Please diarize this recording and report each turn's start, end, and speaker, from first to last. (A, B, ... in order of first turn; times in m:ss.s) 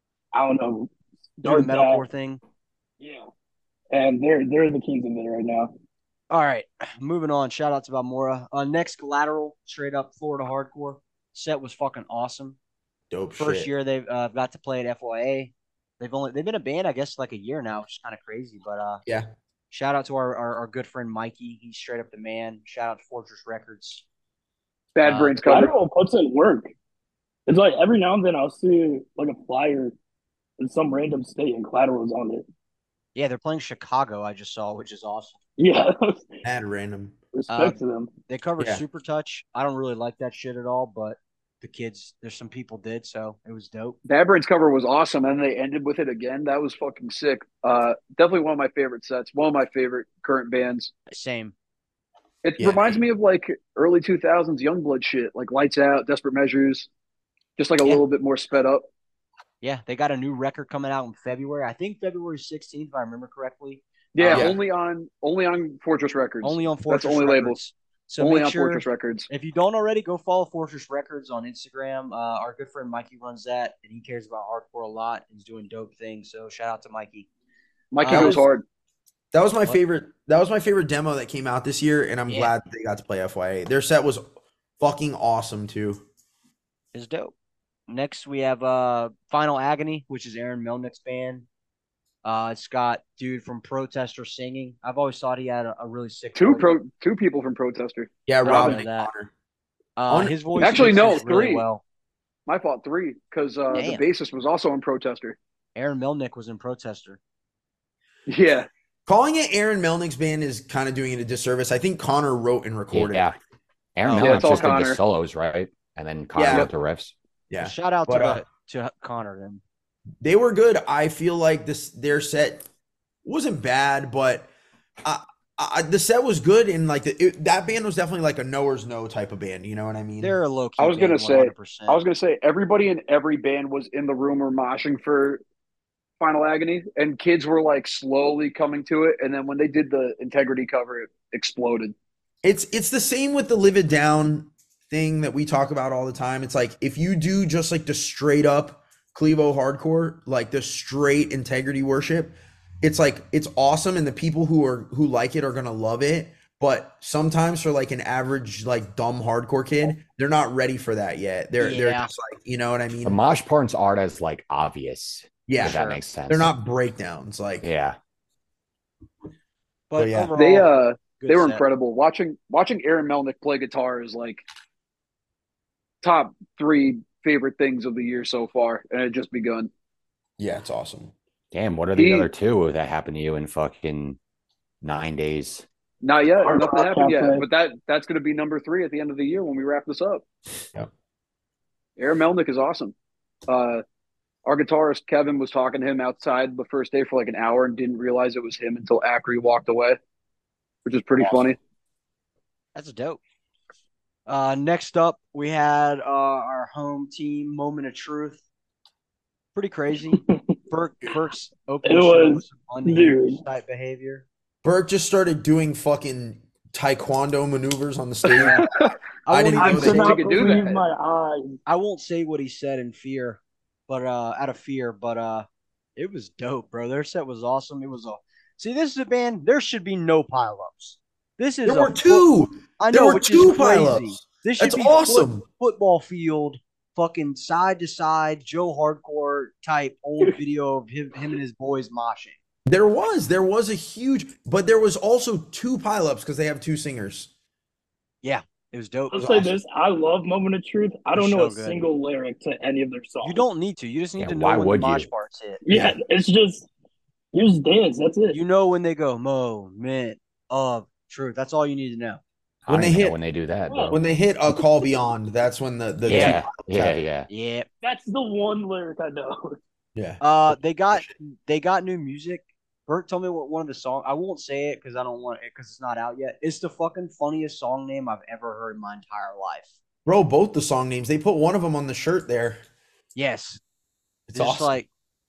0:00.3-0:02.0 A
0:01.4-0:02.4 B
0:03.0-0:03.2 A
0:03.9-0:05.7 A
0:06.3-0:12.6 B
0:13.1-0:13.7 C
0:13.4-0:19.0 B
0:19.0-0:19.3 C
0:19.7-0:24.0 B
0:25.0-0:25.7 D
0:25.0-0:25.4 B
0:25.4-0:26.7 A
0:27.5-0:30.0 A
0:30.6-0:32.4 A
0:33.2-0:35.4 B
0:35.6-0:36.4 A
0:36.4-0:37.2 C
0:37.4-0:38.1 A
0:37.5-0:44.0 B
0:44.0-0:50.9 D
0:51.1-0:51.5 B
0:52.4-0:56.9 D
0:52.6-0:53.0 C
0:57.6-0:58.9 D
0:59.6-1:04.5 B
1:04.2-1:07.6 D
1:04.3-1:04.6 C
1:06.4-1:17.3 B
1:08.2-1:09.3 D
1:17.9-1:18.6 D
1:18.0-1:18.4 B
1:18.0-1:18.4 C
1:19.3-1:24.2 C
1:22.3-1:22.5 B
1:24.8-1:26.0 C
1:26.9-1:27.3 B
1:27.9-1:31.5 B
1:32.2-1:36.7 B
1:36.4-1:38.7 D
1:38.3-1:39.3 C
1:38.4-1:39.1 B
1:40.0-1:41.8 B
1:40.1-1:40.9 C
1:40.6-1:41.7 D
1:42.5-1:45.4 D
1:43.7-1:44.0 B
1:45.8-1:47.2 B
1:48.3-1:48.7 D
1:49.1-1:53.4 C
1:52.9-1:53.4 E
1:54.0-1:57.1 E
1:54.0-1:54.6 B
1:54.1-1:55.0 D
1:56.4-1:56.7 C
1:57.5-1:58.4 C
1:57.6-1:59.6 B
2:00.2-2:02.7 C
2:03.2-2:04.5 C
2:05.0-2:10.4 C
2:10.2-2:12.0 B
2:10.8-2:15.4 D
2:16.2-2:22.0 D
2:22.4-2:43.2 C
2:41.6-2:42.1 B
2:43.0-2:46.5 E
2:45.5-2:47.7 C
2:45.6-2:46.0 B
2:47.6-2:48.0 E
2:49.9-2:51.6 B
2:50.0-2:50.3 C
2:50.4-2:54.4 D
2:56.0-2:59.7 D
3:00.4-3:01.1 C
3:01.5-3:04.2 E
3:02.0-3:02.3 D
3:04.8-3:05.6 E
3:06.0-3:10.2 D
3:06.4-3:07.5 A
3:12.0-3:12.9 D
3:13.5-3:13.8 D
3:14.4-3:20.0 D
3:20.8-3:21.6 D
3:22.8-3:23.2 B
3:24.3-3:28.4 B
3:29.6-3:34.2 B
3:31.8-3:33.4 A
3:34.6-3:38.6 C
3:38.4-3:38.7 B
3:39.3-3:40.5 B
3:39.3-3:40.2 C
3:39.6-3:41.6 A
3:39.9-3:40.8 D
3:41.7-3:45.5 B
3:46.0-4:02.4 B
3:51.6-3:55.4 C
4:02.7-4:07.3 C
4:08.2-4:09.3 B
4:09.1-4:13.4 A
4:09.2-4:09.5 C
4:11.1-4:11.9 B
4:13.2-4:15.6 B
4:14.2-4:15.1 E
4:15.7-4:16.7 A
4:15.7-4:16.0 C
4:17.3-4:18.4 A
4:18.3-4:22.2 B
4:22.6-4:24.0 E
4:22.7-4:23.2 C
4:23.7-4:24.0 A
4:23.9-4:27.0 C
4:26.1-4:27.3 E
4:26.1-4:26.4 B
4:27.3-4:27.7 B
4:27.8-4:29.6 A
4:30.0-4:31.1 C
4:30.2-4:39.7 B
4:40.1-4:42.6 C
4:43.2-4:43.6 B
4:44.3-4:44.8 C
4:44.3-4:44.9 B